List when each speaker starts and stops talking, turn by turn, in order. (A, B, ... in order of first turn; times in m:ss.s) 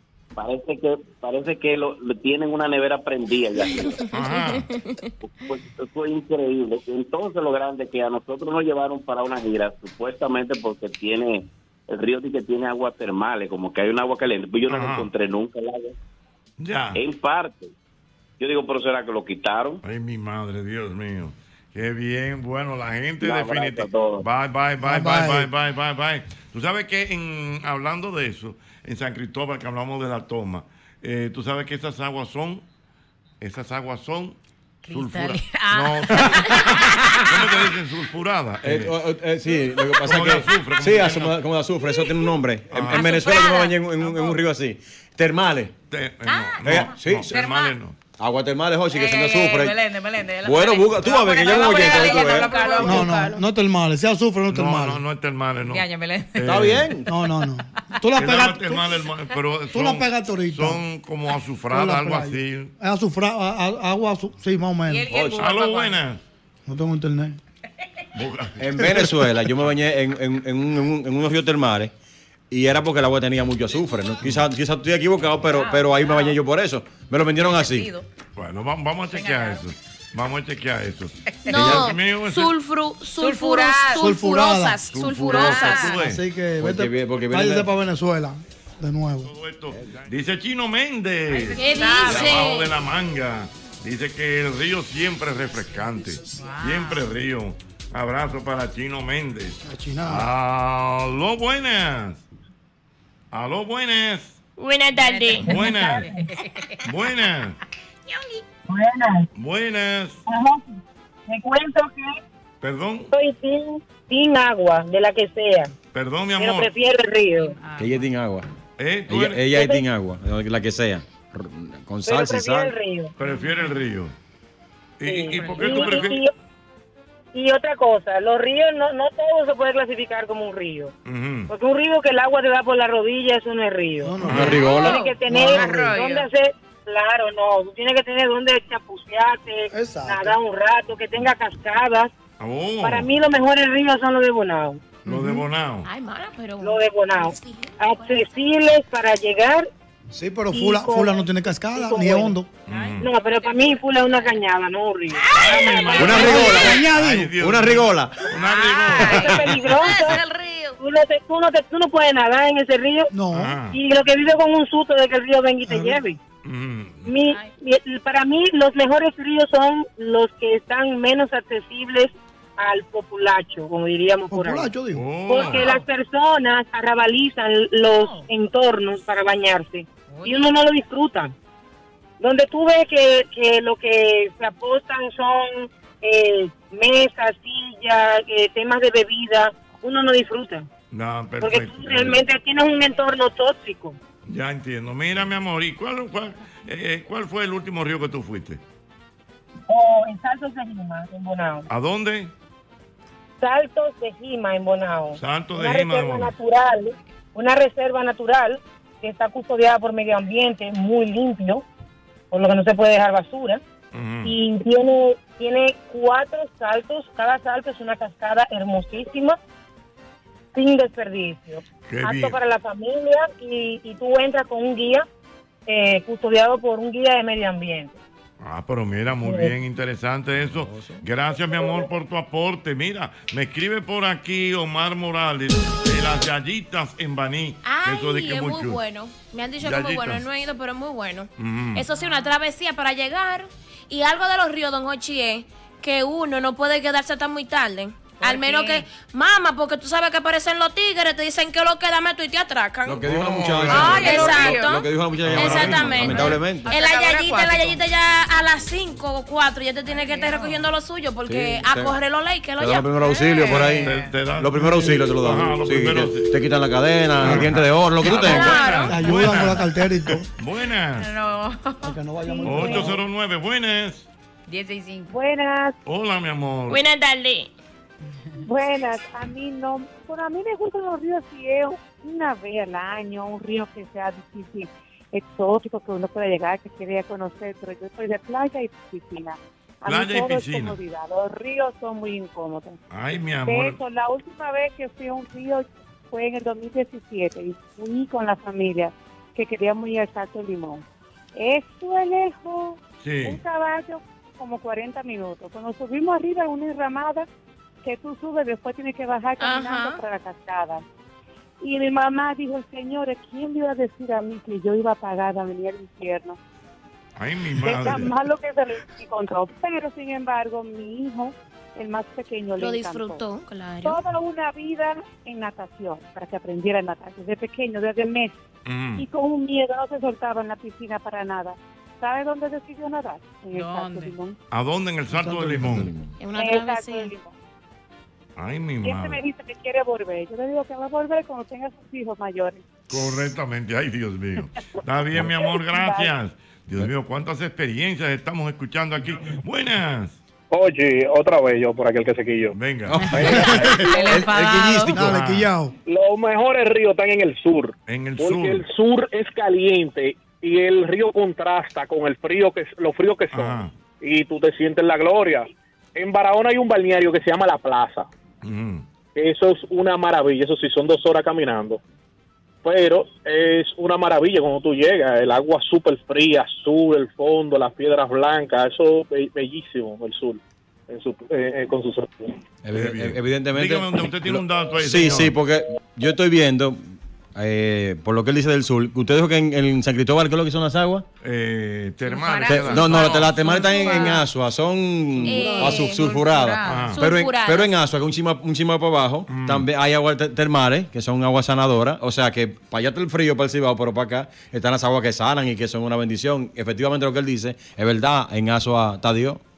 0:00.4-0:04.1 A
0:04.1-0:04.7 B
0:04.2-0:05.1 C
0:05.2-0:15.9 A
0:14.7-0:15.1 B
0:16.6-0:17.0 B
0:17.0-0:17.7 A
0:18.4-0:19.8 A
0:19.8-0:32.6 B
0:23.2-0:24.2 A
0:24.8-0:25.5 D
0:33.4-0:34.4 B
0:34.8-0:37.3 E
0:34.9-0:39.0 B
0:38.6-0:45.7 F
0:40.0-0:41.4 B
0:42.7-0:43.1 B
0:42.9-0:44.4 E
0:45.9-0:47.9 B
0:46.2-0:47.7 E
0:46.6-0:47.3 F
0:48.2-0:49.8 F
0:48.9-0:53.3 E
0:50.4-0:52.5 F
0:51.7-0:53.4 C
0:52.8-0:55.0 D
0:54.5-0:56.9 B
0:55.7-0:56.6 E
0:56.4-0:57.0 F
0:57.1-0:58.9 D
0:58.2-1:02.7 B
0:59.7-1:00.8 D
1:01.7-1:05.1 D
1:04.9-1:06.0 E
1:05.1-1:05.4 F
1:05.3-1:06.2 B
1:06.6-1:07.4 D
1:08.1-1:08.6 B
1:08.6-1:11.9 F
1:08.8-1:09.1 D
1:12.5-1:17.9 F
1:15.5-1:16.4 E
1:17.5-1:18.0 E
1:18.4-1:22.5 B
1:19.1-1:19.6 E
1:21.3-1:21.8 E
1:21.5-1:25.8 C
1:21.5-1:21.8 F
1:23.2-1:24.1 E
1:24.0-1:24.8 D
1:24.8-1:26.2 B
1:25.3-1:26.0 E
1:25.9-1:29.3 D
1:26.6-1:27.7 F
1:29.2-1:42.2 B
1:31.3-1:32.4 E
1:31.5-1:32.7 C
1:36.3-1:37.0 E
1:39.6-1:40.3 D
1:43.3-1:44.4 B
1:44.6-1:45.5 C
1:45.0-1:46.8 E
1:45.4-1:46.1 B
1:46.8-1:47.6 B
1:48.7-1:49.3 G
1:49.3-1:50.2 B
1:50.3-1:50.7 G
1:51.3-1:52.1 G
1:52.6-1:53.1 B
1:53.1-1:55.7 G
1:55.9-1:56.7 B
1:56.4-1:57.6 G
1:57.4-1:58.1 E
1:57.8-1:58.4 F
1:58.8-1:59.5 B
1:59.1-2:02.7 F
1:59.5-1:59.8 G
2:02.0-2:03.1 G
2:03.2-2:04.1 B
2:03.2-2:03.7 E
2:05.0-2:06.2 B
2:05.0-2:06.3 G
2:05.3-2:06.0 E
2:07.3-2:10.9 G
2:11.0-2:11.5 B
2:11.5-2:22.1 G
2:14.0-2:15.9 D
2:14.2-2:14.6 B
2:14.3-2:15.0 F
2:14.4-2:16.3 E
2:19.7-2:20.4 D
2:22.4-2:23.1 B
2:22.8-2:24.9 G
2:25.0-2:25.4 D
2:25.0-2:25.9 B
2:25.8-2:28.4 C
2:26.6-2:29.7 G
2:30.1-2:32.5 D
2:30.5-2:32.3 G
2:32.6-2:33.1 B
2:32.7-2:33.8 E
2:33.0-2:36.8 G
2:35.1-2:35.7 C
2:35.3-2:39.4 B
2:36.0-2:36.8 F
2:36.1-2:37.3 D
2:37.4-2:38.2 F
2:38.3-2:40.7 E
2:39.0-2:40.2 G
2:40.0-2:40.3 C
2:40.8-2:43.1 G
2:43.1-2:43.6 D
2:43.3-2:43.8 B
2:43.6-2:46.2 G
2:45.6-2:46.0 D
2:46.4-2:47.1 B
2:47.0-2:54.7 G
2:54.3-2:55.2 D
2:54.9-2:55.8 B
2:55.3-3:01.3 G
2:58.0-2:58.3 E
3:00.1-3:00.5 E
3:02.2-3:10.6 G
3:10.9-3:12.2 B
3:11.4-3:14.0 G
3:14.2-3:18.6 B
3:19.7-3:21.7 G
3:21.7-3:22.3 B
3:23.4-3:31.6 G
3:25.2-3:26.4 B
3:32.3-3:33.6 G
3:33.9-3:34.4 B
3:34.2-3:39.4 G
3:40.5-3:45.0 G
3:41.9-3:42.4 B
3:45.7-3:48.0 G
3:48.4-3:58.8 B
3:49.2-3:49.5 G
3:50.4-3:51.0 F
3:57.6-4:13.0 C
3:59.6-4:00.2 B
4:01.4-4:01.9 B
4:08.2-4:08.8 E
4:12.8-4:16.7 F
4:13.0-4:14.5 B
4:13.7-4:14.8 E
4:13.8-4:22.9 C
4:15.2-4:16.4 B
4:16.0-4:17.8 E
4:19.9-4:20.6 E
4:21.2-4:22.0 F
4:22.6-4:28.5 F
4:23.0-4:24.1 E
4:23.5-4:26.3 B
4:24.6-4:24.9 D
4:27.2-4:31.1 B
4:28.2-4:28.9 C
4:28.9-4:30.3 D
4:31.0-4:31.9 E
4:31.8-4:33.0 D
4:32.2-4:33.0 H
4:32.4-4:34.1 B
4:34.5-4:35.2 E
4:35.1-4:35.8 H
4:35.8-4:36.8 B
4:36.7-4:37.5 C
4:38.4-4:52.8 H
4:49.8-4:50.8 B
4:52.9-4:53.8 B
4:53.4-5:00.8 H
5:01.4-5:07.3 H
5:03.0-5:03.4 B
5:07.8-5:10.8 H
5:09.4-5:10.0 C
5:11.6-5:16.4 H
5:17.2-5:18.1 B
5:17.6-5:23.2 H
5:22.6-5:24.0 C
5:23.8-5:28.4 H
5:28.6-5:29.1 B
5:29.0-5:34.4 H
5:33.5-5:34.1 E
5:34.5-5:35.9 B
5:35.1-5:35.8 D
5:35.7-5:36.1 F
5:36.2-5:37.1 C
5:36.3-5:37.3 H
5:38.4-5:39.2 B
5:38.8-5:42.6 H
5:42.9-5:50.2 B
5:45.2-5:46.1 H
5:50.5-5:52.6 I
5:52.5-5:53.0 B
5:52.9-5:55.2 F
5:53.0-5:55.1 E
5:53.2-5:53.8 D
5:53.3-5:53.7 I
5:54.9-5:55.7 D
5:55.0-5:55.5 B
5:55.8-6:08.1 I
5:57.9-5:58.6 B
6:03.3-6:03.7 B
6:08.4-6:08.8 B
6:09.1-6:11.8 I
6:12.6-6:22.3 I
6:22.6-6:31.0 F
6:22.7-6:25.3 B
6:31.2-6:33.3 B
6:32.0-6:34.2 E
6:32.5-6:49.4 F
6:35.2-6:36.1 C
6:35.2-6:35.9 D
6:35.5-6:36.9 E
6:36.7-6:37.0 B
6:36.9-6:37.7 C
6:39.3-6:39.7 B